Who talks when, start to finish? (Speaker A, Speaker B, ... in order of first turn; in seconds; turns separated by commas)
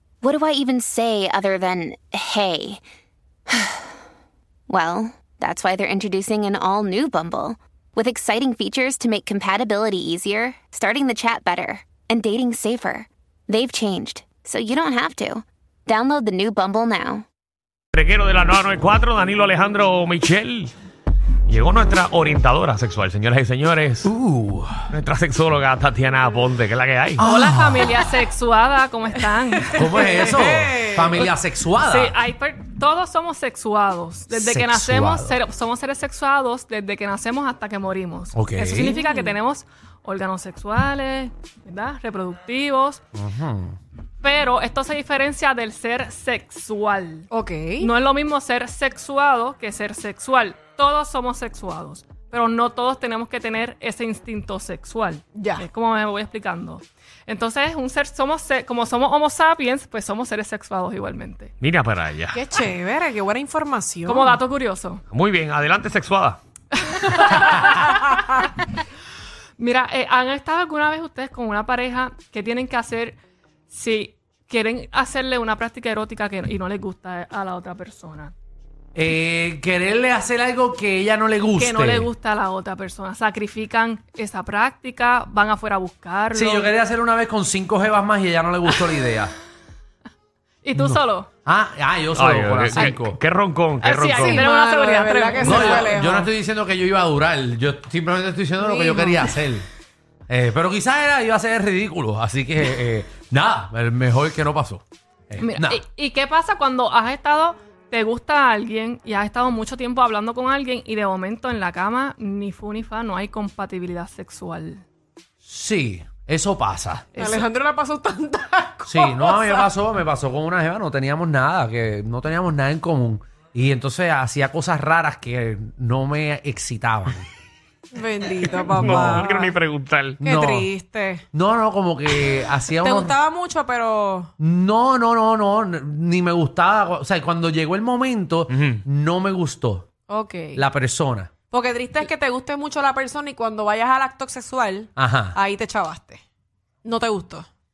Speaker A: 0.2-2.8, Speaker A: 3.5-3.9, Speaker A: 4.7-17.2, Speaker B: 17.9-20.7, Speaker B: 21.5-24.1, Speaker C: 24.0-24.9, Speaker B: 24.9-27.2, Speaker C: 27.2-28.1, Speaker D: 27.2-30.2, Speaker E: 29.6-31.3, Speaker C: 29.7-32.1, Speaker D: 31.8-43.0, Speaker C: 34.3-35.4, Speaker C: 38.3-39.0, Speaker E: 39.0-39.3, Speaker C: 43.1-43.8, Speaker D: 44.2-47.3, Speaker E: 47.3-47.9, Speaker D: 47.8-61.5, Speaker E: 55.4-55.6, Speaker B: 61.6-62.4, Speaker E: 62.3-64.4, Speaker D: 64.0-65.0, Speaker B: 65.1-66.4, Speaker D: 66.7-68.5, Speaker D: 69.6-73.2, Speaker D: 73.7-78.3, Speaker C: 78.9-82.1, Speaker D: 81.5-86.7, Speaker C: 86.3-89.3, Speaker D: 90.6-91.3, Speaker C: 90.7-93.2, Speaker B: 92.1-94.4, Speaker D: 93.8-95.9, Speaker E: 94.1-96.3, Speaker C: 95.4-99.7, Speaker E: 98.6-99.4, Speaker C: 100.3-105.8, Speaker D: 105.4-114.8, Speaker C: 115.4-117.1, Speaker D: 117.1-117.4, Speaker E: 117.2-119.7, Speaker C: 118.9-127.3, Speaker E: 127.9-129.6, Speaker B: 128.4-130.2, Speaker C: 128.8-129.2, Speaker C: 130.2-130.7, Speaker E: 130.2-131.2, Speaker C: 131.3-133.2, Speaker E: 132.7-134.3, Speaker C: 134.4-139.9, Speaker B: 138.5-138.8, Speaker E: 140.1-140.6, Speaker C: 140.5-141.3, Speaker E: 141.5-146.2, Speaker C: 144.9-145.4, Speaker E: 146.8-147.5